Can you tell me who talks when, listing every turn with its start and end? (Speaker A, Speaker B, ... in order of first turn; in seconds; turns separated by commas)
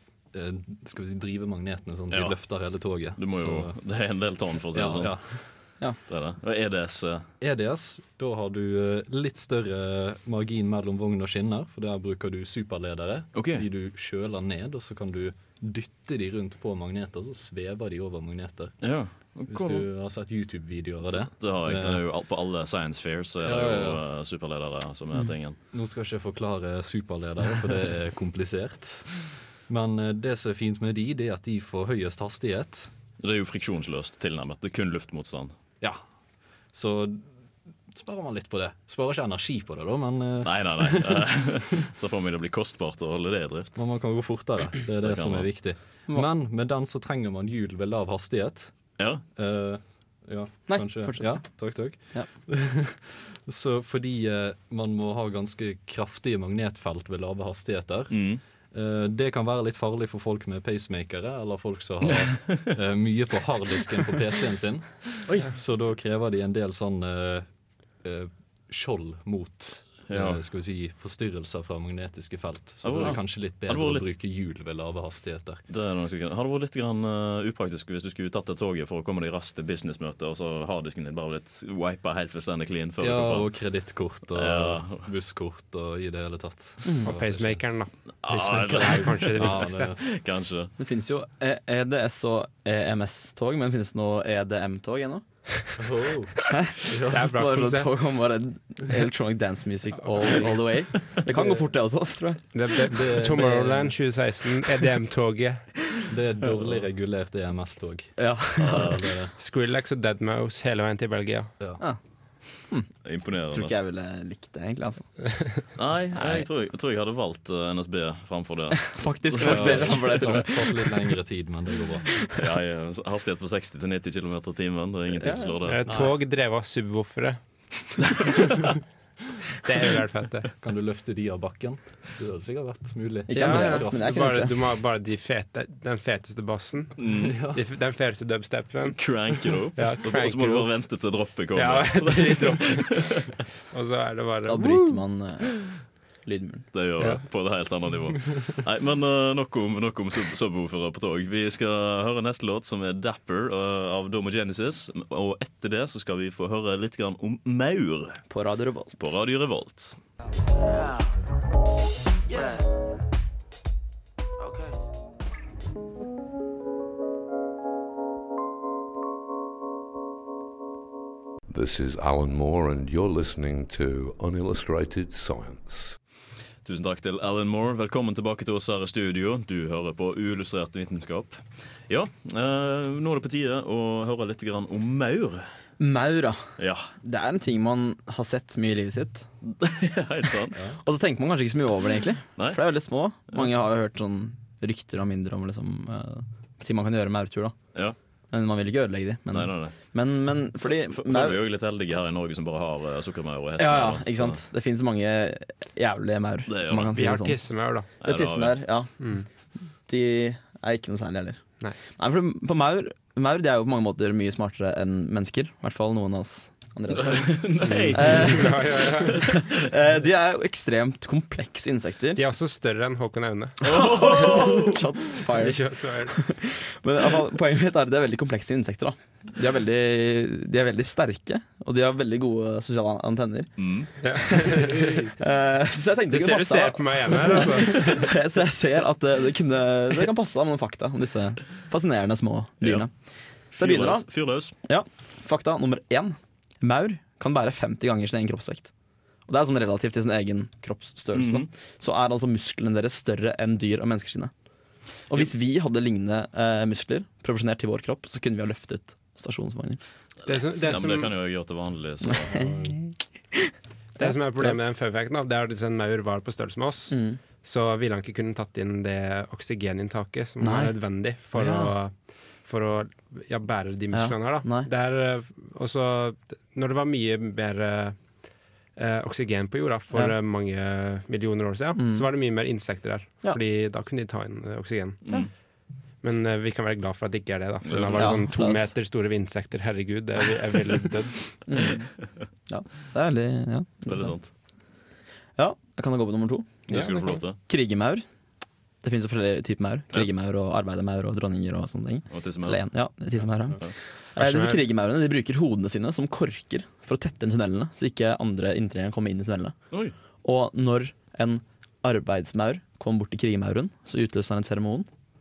Speaker A: 0.3-5.8, Speaker B: 2.1-7.3, Speaker A: 7.4-18.9, Speaker B: 13.3-13.7, Speaker B: 18.8-19.9, Speaker A: 19.5-22.1, Speaker B: 21.4-25.6, Speaker A: 23.4-24.0, Speaker A: 25.7-32.9, Speaker B: 33.2-35.5, Speaker A: 36.7-41.3, Speaker B: 40.4-43.8, Speaker A: 43.8-48.8, Speaker B: 45.0-45.7, Speaker B: 49.0-49.2, Speaker A: 49.4-67.5, Speaker C: 50.7-52.3, Speaker B: 58.1-58.4, Speaker B: 62.4-62.7, Speaker A: 68.0-75.6, Speaker B: 70.1-70.4, Speaker B: 72.8-74.1, Speaker B: 75.7-85.1, Speaker A: 83.0-87.7, Speaker C: 86.8-87.1, Speaker D: 87.0-89.9, Speaker B: 88.2-90.7, Speaker A: 88.3-90.0, Speaker C: 90.8-95.7, Speaker A: 95.8-96.3, Speaker A: 96.9-97.2, Speaker D: 97.1-97.9, Speaker C: 97.1-103.2, Speaker D: 100.0-106.0, Speaker A: 102.9-104.0, Speaker A: 106.1-109.3, Speaker C: 108.2-108.9, Speaker B: 108.6-109.0, Speaker D: 109.4-111.5, Speaker A: 111.6-111.8, Speaker C: 111.8-115.3, Speaker B: 113.0-113.7, Speaker B: 115.8-120.4, Speaker C: 116.1-116.5, Speaker C: 118.9-120.8, Speaker A: 119.4-122.2, Speaker B: 122.3-125.8, Speaker C: 125.2-125.5, Speaker D: 125.7-128.1, Speaker A: 125.9-126.2, Speaker D: 129.6-130.5, Speaker A: 130.6-134.4, Speaker C: 133.3-134.5, Speaker D: 133.3-144.9, Speaker B: 137.0-137.4, Speaker A: 137.1-137.6, Speaker B: 139.0-143.0, Speaker C: 144.5-146.7, Speaker B: 146.7-158.3, Speaker D: 147.0-147.2, Speaker C: 158.3-159.1, Speaker B: 159.0-160.0, Speaker E: 171.5-176.0, Speaker B: 176.6-185.5, Speaker C: 185.8-186.5, Speaker B: 186.6-186.9, Speaker C: 187.0-189.3, Speaker B: 189.4-190.6, Speaker A: 190.6-190.8, Speaker C: 190.8-197.6, Speaker C: 198.3-201.4, Speaker B: 199.3-199.8, Speaker B: 200.6-204.4, Speaker C: 203.6-222.2, Speaker B: 206.5-206.9, Speaker D: 206.9-207.9, Speaker B: 208.0-208.7, Speaker D: 209.0-209.3, Speaker B: 216.9-219.1, Speaker D: 217.8-219.3, Speaker D: 222.2-224.3, Speaker B: 223.6-224.8, Speaker C: 223.7-234.6, Speaker D: 225.3-226.2, Speaker B: 233.6-233.9, Speaker D: 234.0-235.0, Speaker A: 234.8-235.1, Speaker C: 235.2-254.3, Speaker D: 236.1-238.2, Speaker B: 242.6-244.5, Speaker B: 251.1-251.5, Speaker C: 254.9-259.8, Speaker B: 260.2-262.6, Speaker D: 260.3-261.1, Speaker C: 262.1-264.6, Speaker A: 262.4-262.8, Speaker D: 264.0-285.2, Speaker C: 266.9-267.2, Speaker C: 270.4-270.8, Speaker C: 271.3-271.8, Speaker C: 273.9-274.7, Speaker C: 281.8-282.1, Speaker D: 286.0-291.5, Speaker B: 287.6-288.1, Speaker C: 287.9-288.7, Speaker C: 291.5-294.4, Speaker B: 293.9-294.3, Speaker C: 295.4-298.1, Speaker B: 296.7-297.4, Speaker D: 296.7-297.2, Speaker C: 298.8-309.6, Speaker B: 302.1-302.9, Speaker D: 304.2-304.6, Speaker C: 310.2-314.9